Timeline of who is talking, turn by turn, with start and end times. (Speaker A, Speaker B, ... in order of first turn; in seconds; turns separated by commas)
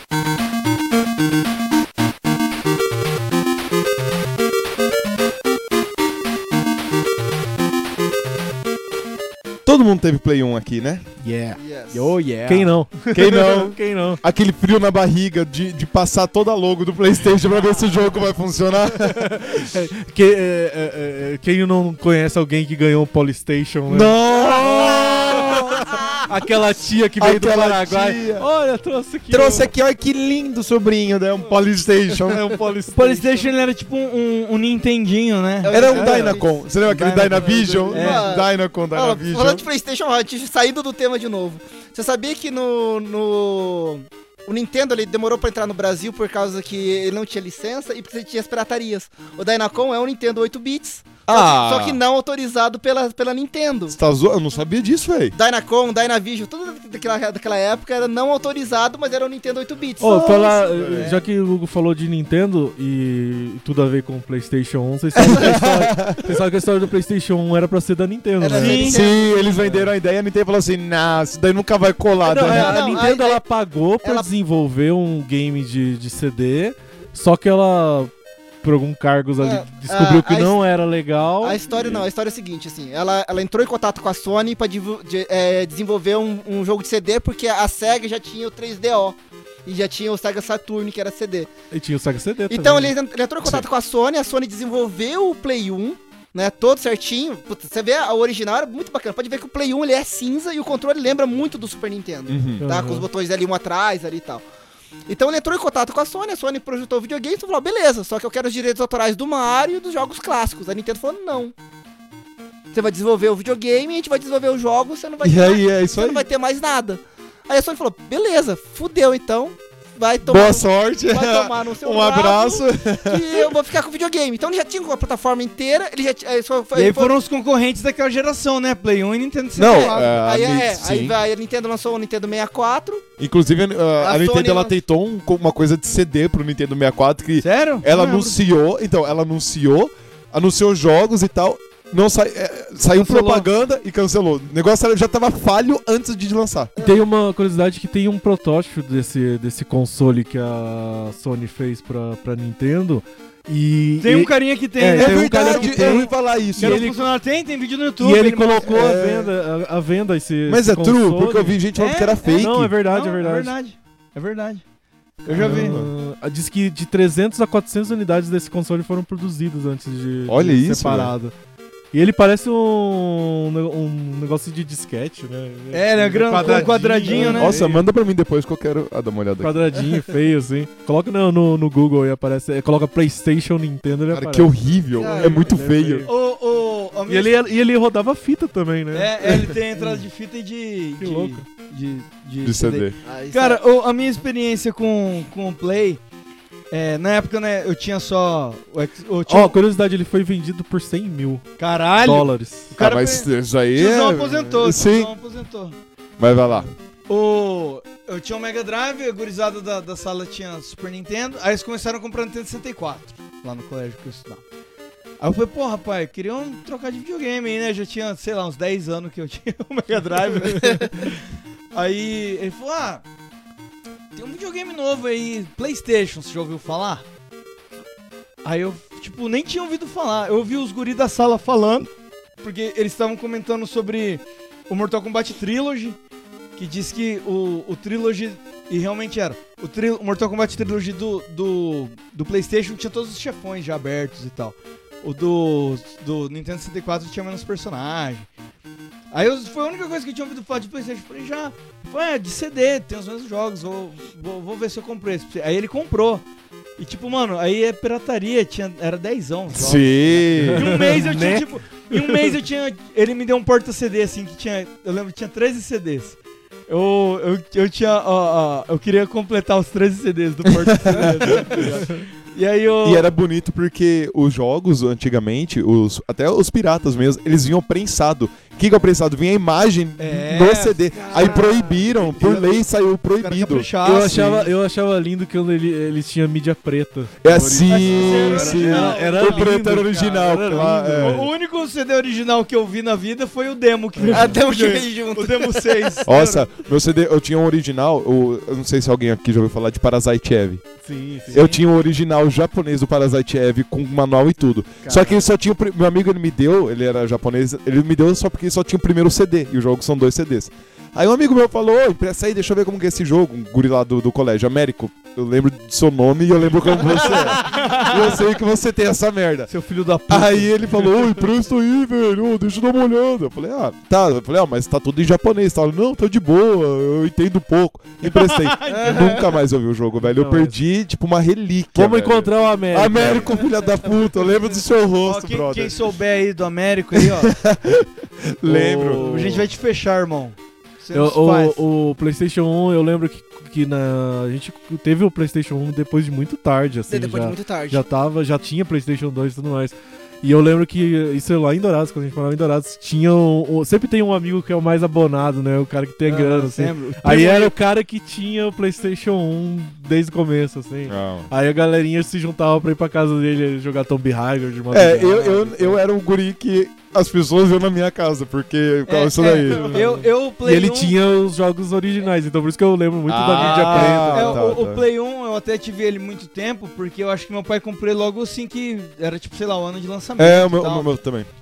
Speaker A: 9.7-11.0, Speaker B: 11.2-11.6, Speaker C: 11.6-12.2, Speaker D: 11.9-12.7, Speaker B: 12.4-14.2, Speaker A: 13.1-19.3, Speaker B: 19.1-24.1, Speaker A: 23.9-25.8, Speaker C: 24.6-26.3, Speaker B: 26.3-29.7, Speaker A: 27.2-28.5, Speaker A: 29.3-32.5, Speaker B: 32.3-33.5, Speaker D: 32.9-38.3, Speaker C: 35.6-36.5, Speaker A: 35.7-39.6, Speaker C: 37.9-53.9, Speaker A: 51.3-52.0, Speaker A: 53.9-55.4, Speaker C: 55.3-60.9, Speaker B: 60.0-69.0, Speaker A: 60.0-61.1, Speaker D: 60.9-61.2, Speaker A: 65.2-66.2, Speaker C: 68.4-69.6, Speaker D: 68.6-69.0, Speaker A: 68.7-72.9, Speaker B: 69.6-69.9, Speaker B: 72.2-78.1, Speaker C: 72.2-73.4, Speaker C: 74.0-74.3, Speaker B: 78.6-81.6, Speaker C: 79.4-80.6, Speaker C: 81.4-91.5, Speaker B: 91.7-92.9, Speaker C: 92.5-104.4, Speaker A: 102.3-102.6, Speaker B: 102.6-103.0, Speaker C: 105.1-111.5, Speaker C: 112.7-127.1, Speaker A: 115.2-116.2, Speaker A: 120.2-123.5, Speaker D: 126.7-130.1, Speaker A: 129.6-131.2, Speaker C: 129.7-133.0, Speaker A: 133.2-146.7, Speaker C: 134.0-134.8, Speaker D: 137.4-138.3, Speaker D: 142.9-143.5, Speaker B: 146.8-157.0, Speaker D: 154.0-158.9, Speaker A: 155.0-156.9, Speaker B: 158.0-161.6, Speaker A: 158.6-159.3, Speaker A: 160.5-162.7, Speaker D: 161.7-164.6, Speaker B: 162.3-163.5, Speaker D: 165.2-165.7, Speaker B: 165.3-171.3, Speaker A: 165.3-165.9, Speaker A: 170.3-171.1, Speaker B: 171.9-177.8, Speaker D: 175.7-177.7, Speaker A: 176.3-179.8, Speaker B: 179.4-184.5, Speaker A: 184.1-186.1, Speaker C: 184.9-185.4, Speaker B: 185.0-186.1, Speaker D: 186.1-187.4, Speaker B: 187.1-190.0, Speaker D: 188.9-196.0, Speaker B: 191.0-191.4, Speaker A: 192.4-192.9, Speaker C: 193.0-193.6, Speaker D: 196.7-199.6, Speaker B: 199.3-201.4, Speaker D: 201.6-205.8, Speaker B: 202.0-202.7, Speaker A: 202.7-205.1, Speaker A: 206.2-206.7, Speaker D: 207.1-214.4, Speaker D: 215.2-221.2, Speaker D: 221.7-223.0, Speaker D: 224.1-227.0, Speaker D: 228.4-231.9, Speaker D: 232.4-236.0, Speaker D: 236.6-248.3, Speaker D: 249.1-256.2, Speaker D: 256.8-266.2, Speaker A: 259.5-260.9, Speaker B: 260.4-262.3, Speaker D: 266.7-273.1, Speaker A: 270.9-271.7, Speaker B: 271.0-272.0, Speaker A: 272.8-283.7, Speaker D: 280.0-282.6, Speaker D: 283.2-284.5, Speaker B: 283.8-291.3, Speaker A: 287.2-291.3, Speaker D: 287.7-289.8, Speaker D: 290.5-296.5, Speaker B: 294.0-294.4, Speaker C: 294.1-295.9, Speaker A: 296.1-300.6, Speaker B: 300.8-301.4, Speaker A: 301.3-319.5, Speaker D: 301.3-301.6, Speaker D: 317.0-318.1, Speaker D: 319.5-320.8, Speaker A: 320.1-335.8, Speaker D: 328.0-329.2, Speaker C: 328.7-329.2, Speaker B: 330.0-330.5, Speaker B: 331.7-333.4, Speaker D: 335.0-337.3, Speaker A: 336.9-339.2, Speaker B: 338.4-339.4, Speaker D: 339.0-341.6, Speaker B: 340.9-365.8, Speaker C: 346.9-347.8, Speaker D: 356.1-357.5, Speaker A: 360.9-361.3, Speaker A: 364.7-369.9, Speaker D: 368.9-370.9, Speaker B: 369.5-374.5, Speaker A: 373.1-374.9, Speaker D: 373.4-380.9, Speaker A: 380.2-381.3